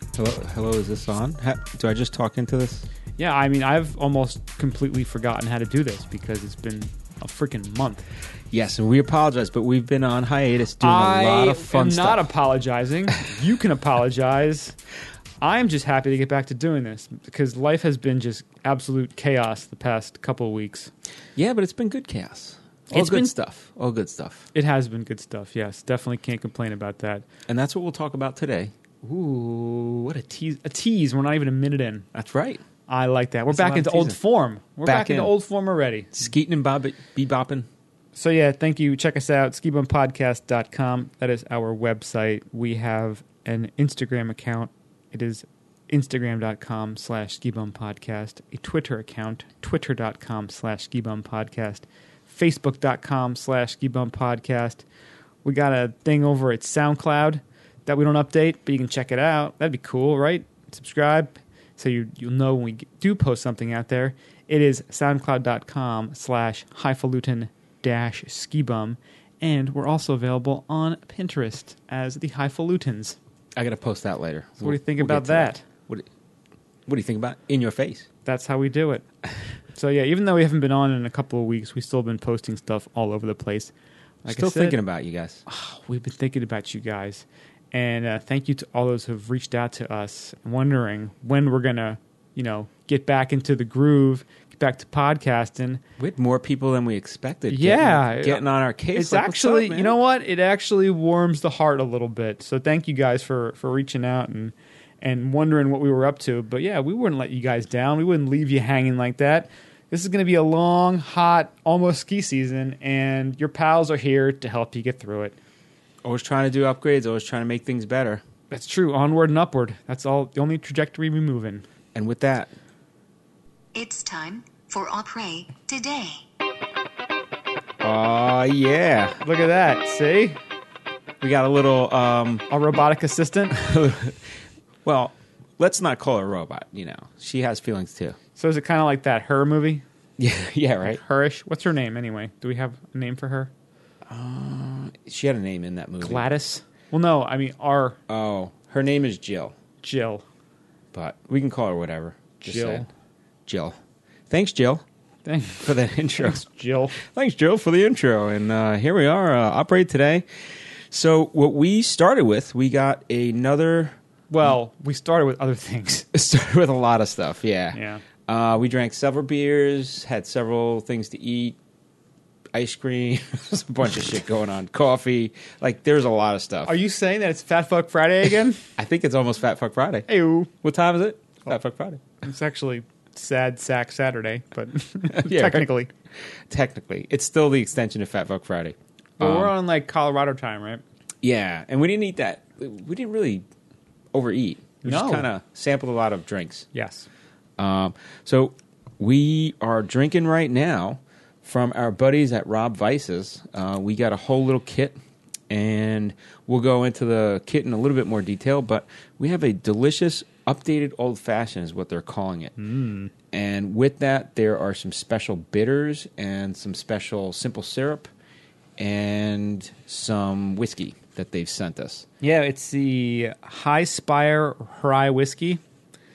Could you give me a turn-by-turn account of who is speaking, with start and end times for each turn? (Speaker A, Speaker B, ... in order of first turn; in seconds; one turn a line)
Speaker A: 0.1-2.9
Speaker B: 3.2-8.1
Speaker A: 8.5-12.3
Speaker B: 10.8-14.8
Speaker B: 15.4-20.9
Speaker A: 21.4-24.5
Speaker B: 22.9-23.3
Speaker B: 24.5-27.2
Speaker A: 27.5-28.7
Speaker B: 29.0-32.1
Speaker A: 32.1-32.6
Speaker B: 32.9-36.1
Speaker A: 33.5-34.2
Speaker A: 34.8-35.3
Speaker A: 36.1-37.7
Speaker B: 38.1-54.8
Speaker B: 55.4-73.2
Speaker A: 73.5-76.1
Speaker B: 74.6-75.6
Speaker A: 76.8-78.1
Speaker B: 78.2-79.0
Speaker B: 79.7-83.7
Speaker B: 84.2-84.8
Speaker A: 84.2-85.4
Speaker B: 85.5-95.8
Speaker A: 96.0-100.0
Speaker B: 97.5-98.4
Speaker B: 98.9-115.4
Speaker A: 116.0-118.2
Speaker B: 118.5-121.6
Speaker A: 121.9-122.5
Speaker C: 123.7-126.2
Speaker A: 127.8-129.2
Speaker B: 129.2-130.4
Speaker A: 131.2-132.5
Speaker B: 132.5-133.6
Speaker A: 133.5-138.2
Speaker B: 138.4-139.8
Speaker A: 140.2-141.0
Speaker B: 140.9-143.5
Speaker A: 144.1-146.2
Speaker B: 146.0-148.0
Speaker A: 148.1-149.6
Speaker B: 149.8-150.2
Speaker A: 150.9-152.9
Speaker B: 152.4-152.9
Speaker A: 153.5-153.8
Speaker A: 154.3-154.8
Speaker B: 155.2-157.0
Speaker A: 155.6-164.0
Speaker B: 164.3-166.1
Speaker A: 166.1-171.6
Speaker B: 167.7-168.0
Speaker A: 172.5-176.7
Speaker B: 176.7-178.7
Speaker A: 178.8-182.0
Speaker B: 180.1-180.5
Speaker B: 182.2-185.9
Speaker A: 185.1-185.7
Speaker A: 186.3-189.5
Speaker B: 189.2-190.8
Speaker A: 191.2-193.5
Speaker A: 194.1-196.7
Speaker B: 194.8-195.3
Speaker B: 196.7-197.1
Speaker A: 197.6-205.0
Speaker A: 205.5-212.6
Speaker B: 212.6-213.1
Speaker A: 213.3-218.1
Speaker A: 218.8-222.1
Speaker B: 222.2-225.6